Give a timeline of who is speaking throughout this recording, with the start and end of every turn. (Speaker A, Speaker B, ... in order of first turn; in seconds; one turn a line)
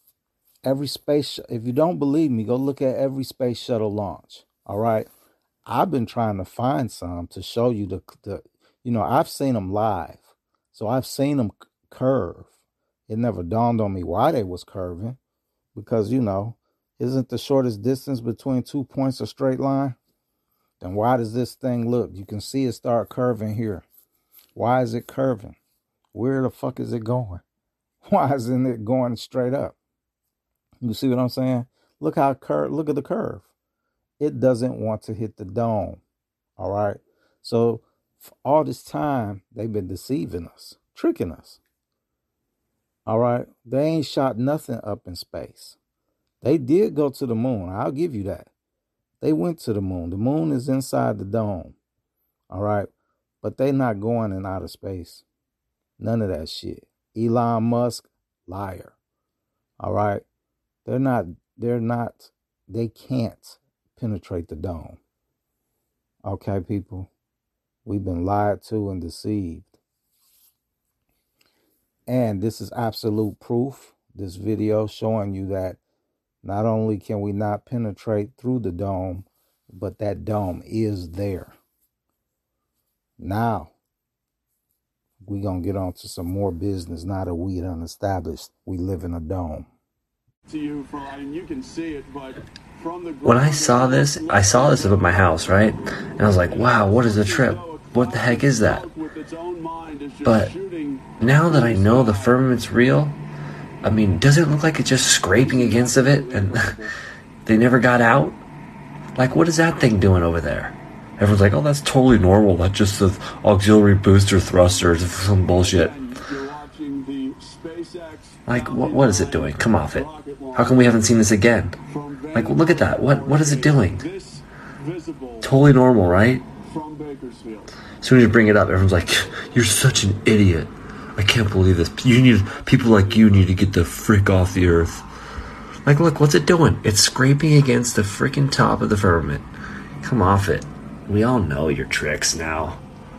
Speaker A: 0.6-5.1
Speaker A: 5.7-12.5
Speaker A: 13.1-15.2
Speaker A: 15.7-20.0
Speaker A: 20.8-23.8
Speaker A: 24.5-25.6
Speaker A: 26.1-27.4
Speaker A: 28.0-29.8
Speaker A: 30.8-33.5
Speaker A: 34.2-36.0
Speaker A: 36.6-41.6
Speaker A: 43.0-45.8
Speaker A: 46.4-48.5
Speaker A: 49.2-51.8
Speaker A: 52.5-52.9
Speaker A: 53.4-55.2
Speaker A: 56.0-59.0
Speaker A: 59.8-60.2
Speaker A: 60.9-65.0
Speaker A: 66.2-67.1
Speaker A: 67.8-69.8
Speaker A: 72.1-75.8
Speaker A: 76.4-81.5
Speaker A: 83.2-83.7
Speaker A: 85.2-89.7
Speaker B: 90.5-95.7
Speaker C: 93.2-98.9
Speaker B: 96.3-102.5
Speaker C: 100.2-100.5
Speaker C: 101.2-103.2
Speaker C: 103.8-106.7
Speaker B: 105.3-106.9
Speaker C: 107.5-108.4
Speaker C: 109.2-115.9
Speaker B: 114.5-121.1
Speaker C: 118.5-121.8
Speaker B: 121.8-125.6
Speaker C: 122.3-124.0
Speaker C: 125.4-126.4
Speaker B: 126.6-127.7
Speaker C: 128.0-135.0
Speaker B: 132.4-133.7
Speaker C: 135.8-139.5
Speaker C: 140.0-142.8